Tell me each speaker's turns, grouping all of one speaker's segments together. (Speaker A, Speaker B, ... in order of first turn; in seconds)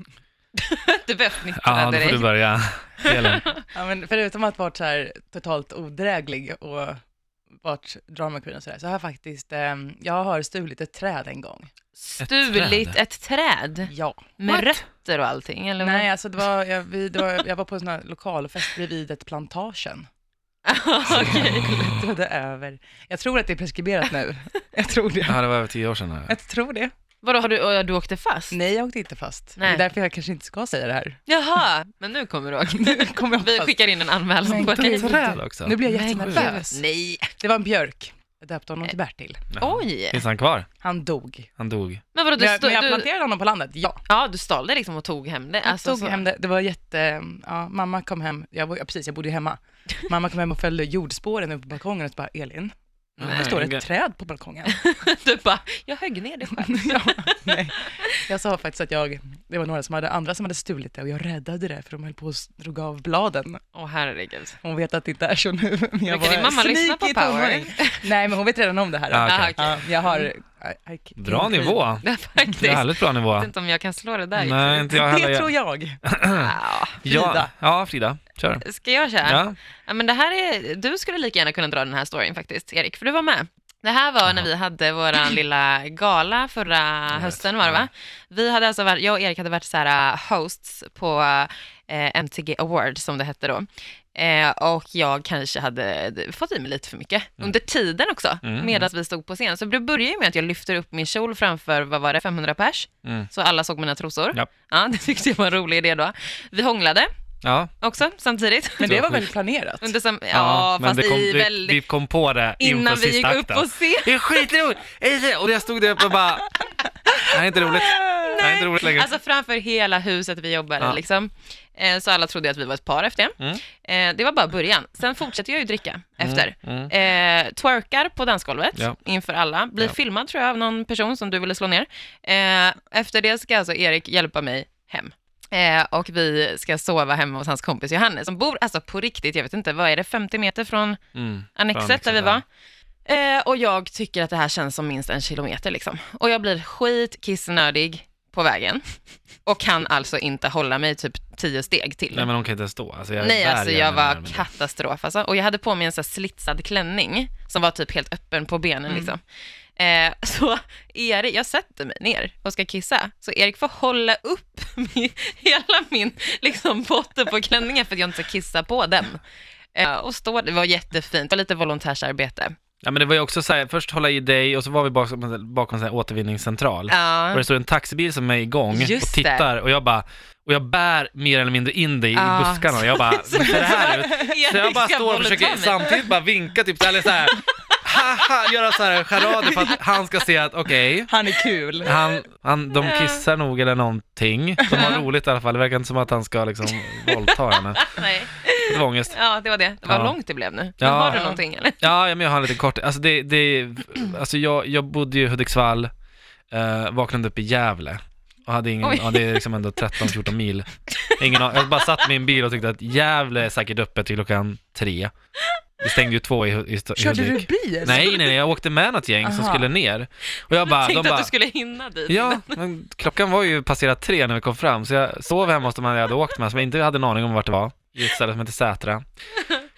Speaker A: 0.6-2.3, 3.0-3.6, 11.9-16.1, 20.6-21.8, 27.2-28.6, 29.6-29.8, 31.3-35.2, 35.9-37.3, 39.6-40.2, 42.1-43.1, 44.1-46.2, 53.2-53.6, 54.7-58.1, 63.7-64.6, 66.1-68.1, 69.2-70.3, 72.0-74.9, 76.3-77.0, 78.6-107.1, 107.8-109.0, 109.8-111.8, 112.6-114.1, 118.2-141.0, 141.6-142.4, 143.1-148.8, 149.4-152.3, 153.2-159.2, 159.8-169.2, 169.7-172.5, 176.9-177.4, 178.7-179.5, 182.1-186.1, 189.3-189.8, 192.8-193.2, 194.7-195.0, 197.8-201.8, 208.8-210.2, 210.9-211.5, 217.8-218.1, 220.6-222.6, 229.4-229.7
Speaker B: 1.6-3.5, 12.2-12.9, 14.5-14.7, 25.2-26.3, 35.0-35.8, 39.5-40.7, 41.6-42.0, 53.2-53.8, 69.1-69.7, 71.2-73.5, 74.3-75.5, 76.0-78.6, 79.2-79.5, 87.1-87.9, 98.4-98.9, 107.4-107.7, 108.8-109.2, 110.3-119.1, 126.2-126.9, 141.1-142.4, 152.1-154.4, 172.8-191.1, 191.8-197.9, 198.6-199.1, 199.8-200.2, 200.8-201.2, 201.8-205.9, 206.5-215.1, 215.8-221.3, 222.1-229.0
Speaker C: 3.7-7.0, 7.6-11.7, 13.9-14.4, 15.8-20.1, 21.1-25.4, 26.3-26.9, 28.5-31.2, 32.7-33.8, 34.4-36.8, 37.4-39.5, 40.8-41.5, 42.4-44.0, 45.6-54.8, 56.5-63.6, 64.6-71.8, 74.9-76.0, 77.1-77.5, 108.8-109.9, 158.9-159.1, 183.4-184.3, 191.1-191.9, 194.6-194.9, 201.1-201.4, 217.0-218.2, 219.2-219.7